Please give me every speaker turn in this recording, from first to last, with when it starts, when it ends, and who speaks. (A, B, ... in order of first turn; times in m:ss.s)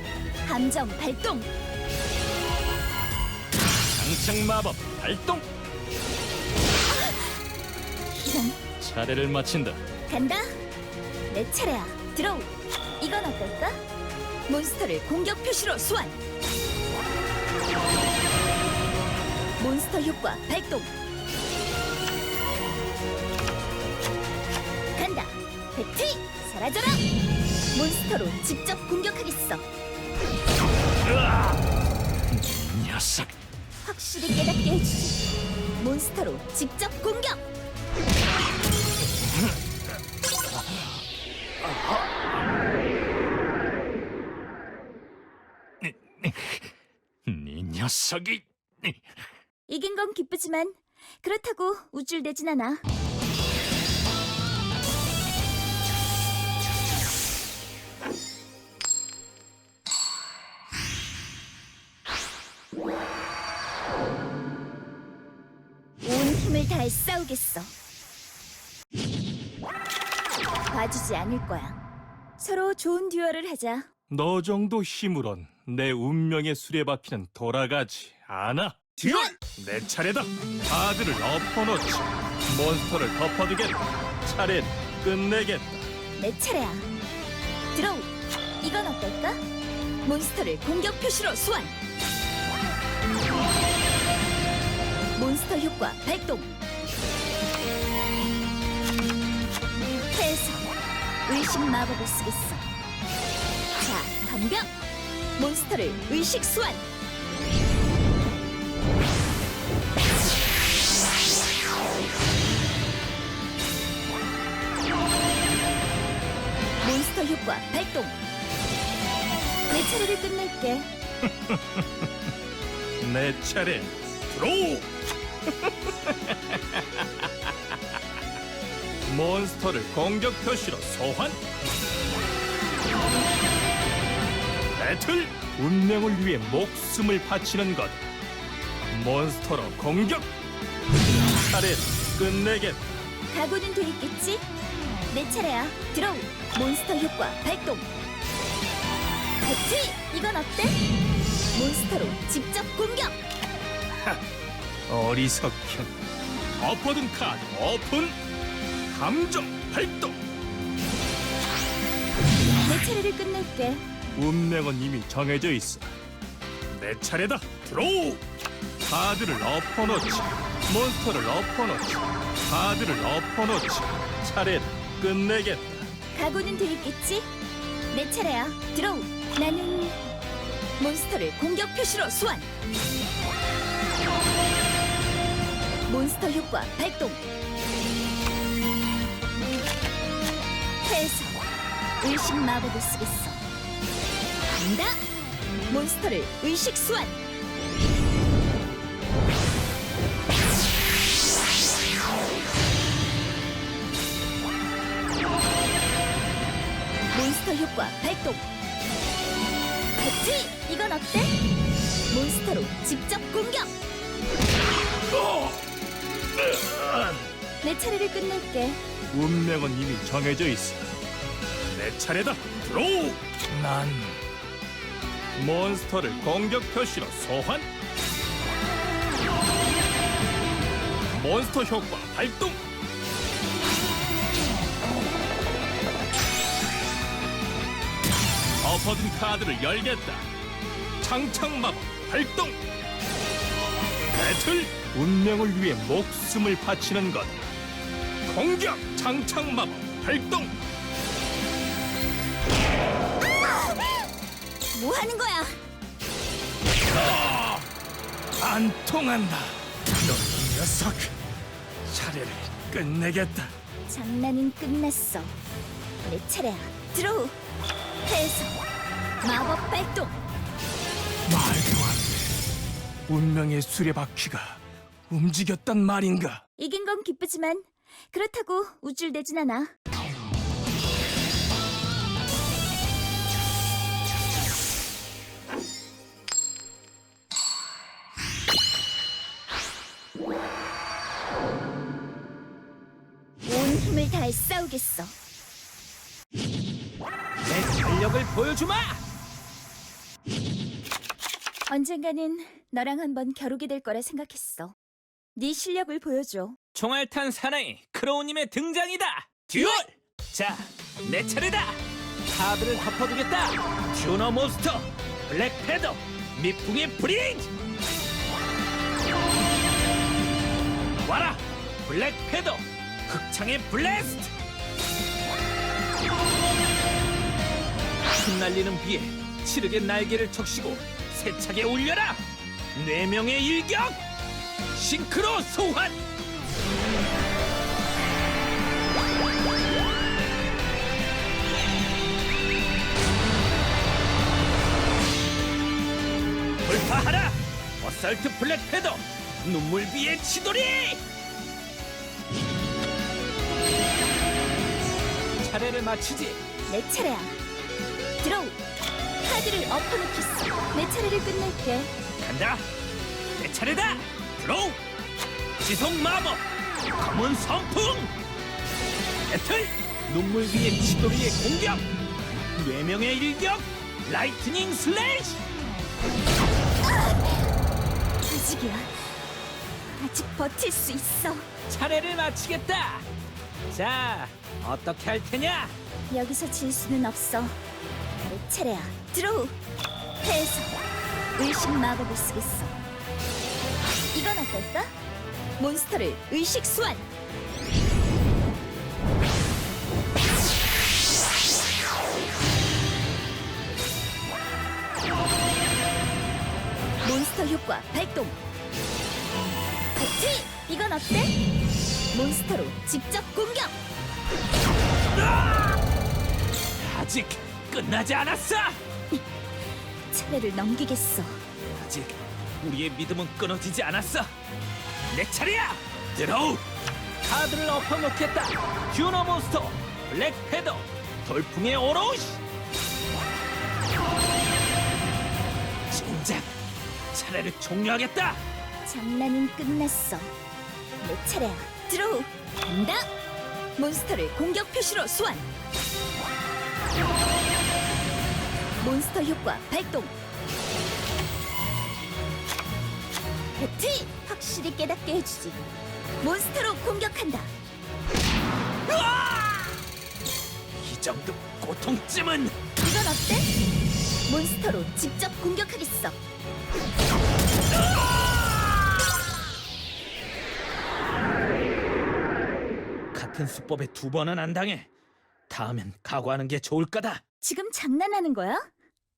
0:00.4-0:01.5 A
0:03.9-0:05.5 B
0:08.1-0:08.6 A
0:08.8-0:09.8 B
0:10.1-0:10.6 A
0:11.3-0:13.8 A
0:14.5-0:16.2 A
0:19.6-0:20.9 A
0:25.0-0:27.0 A
0:27.7-0:29.7 A
0:31.0-0:31.6 B
0:32.3-0:33.3 B
0:33.8-0:35.2 A
0:35.8-0:37.4 A
0:45.8-0:46.7 B
0:47.3-0:49.0 B
0:49.7-0:52.8 A
1:06.0-1:07.7 A
1:10.7-1:11.8 A
1:12.4-1:13.9 A
1:14.1-1:25.9 C
1:19.0-1:19.3 A
1:26.2-1:26.9 A
1:27.7-1:28.1 A
1:28.6-1:29.4 A
1:30.0-1:31.8 A
1:35.2-1:36.5 A
1:40.1-1:40.7 A
1:41.3-1:42.7 A
1:43.8-1:44.7 A
1:45.4-1:46.9 A
1:56.8-1:58.1 A
1:59.7-2:00.9 A
2:01.5-2:02.0 C
2:03.0-2:04.9 C
2:05.5-2:07.3 C
2:09.1-2:11.4 C
2:14.8-2:18.2 C
2:18.9-2:20.3 C
2:21.4-2:23.0 C
2:23.3-2:24.5 A
2:25.1-2:27.9 A
2:29.4-2:30.8 A
2:31.5-2:33.2 A
2:34.9-2:35.9 C
2:36.6-2:38.2 C
2:38.9-2:40.2 C
2:42.6-2:43.8 A
2:44.2-2:46.0 C
2:46.7-2:48.2 C
2:48.9-2:55.9 C
2:56.2-2:57.3 A
2:57.9-3:00.0 A
3:00.8-3:02.5 A
3:05.9-3:07.2 A
3:10.8-3:11.4 A
3:12.0-3:13.4 A
3:14.6-3:15.0 A
3:15.7-3:17.2 A
3:27.1-3:28.4 A
3:30.0-3:31.4 A
3:32.1-3:33.7 A
3:35.1-3:35.6 C
3:36.4-3:37.3 C
3:37.6-3:38.8 A
3:39.1-3:40.9 C
3:41.7-3:44.2 C
3:45.4-3:47.7 C
3:51.1-3:52.6 C
3:58.6-4:00.3 C
4:01.0-4:02.6 C
4:04.2-4:07.4 C
4:08.3-4:10.5 C
4:14.7-4:15.6 A
4:16.9-4:17.7 C
4:18.4-4:21.1 C
4:21.9-4:23.5 C
4:23.9-4:25.4 A
4:26.0-4:27.4 A
4:28.0-4:28.6 A
4:29.2-4:30.2 A
4:31.3-4:32.2 C
4:33.1-4:36.4 C
4:36.6-4:39.7 A
4:53.4-4:55.2 A
4:57.5-4:59.0 D
5:01.7-5:04.8 A
5:05.4-5:06.6 A
5:06.7-5:11.8 D
5:09.6-5:09.8 A
5:12.3-5:17.5 D
5:21.0-5:24.3 D
5:28.2-5:34.0 D
5:34.7-5:36.0 D
5:46.6-5:51.0 D
5:55.4-5:56.4 D
5:56.7-5:57.4 A
5:58.2-5:58.6 A
5:59.2-6:01.9 A
6:02.2-6:02.6 D
6:03.4-6:04.8 D
6:05.6-6:06.5 D
6:07.0-6:08.1 D
6:09.3-6:11.9 D
6:12.6-6:15.4 D
6:18.3-6:19.0 A
6:19.9-6:21.5 A
6:21.7-6:23.1 D
6:23.7-6:25.8 D
6:26.1-6:27.6 A
6:28.2-6:29.6 A
6:30.2-6:30.8 A
6:31.4-6:32.8 A
6:34.1-6:34.9 A
6:35.6-6:37.1 A
6:47.0-6:48.4 A
6:50.0-6:51.4 A
6:52.1-6:53.8 A
6:55.1-6:55.8 D
6:56.8-6:58.8 D
7:00.1-7:01.4 A
7:01.6-7:04.4 D
7:05.1-7:06.6 D
7:07.2-7:12.4 D
7:15.9-7:16.6 D
7:17.1-7:18.4 D
7:18.8-7:20.3 A
7:21.0-7:23.0 A
7:23.8-7:25.5 A
7:28.8-7:30.1 A
7:33.6-7:35.7 A
7:36.2-7:37.5 A
7:38.9-7:39.8 D
7:40.8-7:42.5 D
7:42.8-7:43.5 A
7:44.3-7:46.2 A
7:53.1-7:54.9 D
7:55.5-7:57.2 D
7:57.4-7:58.7 A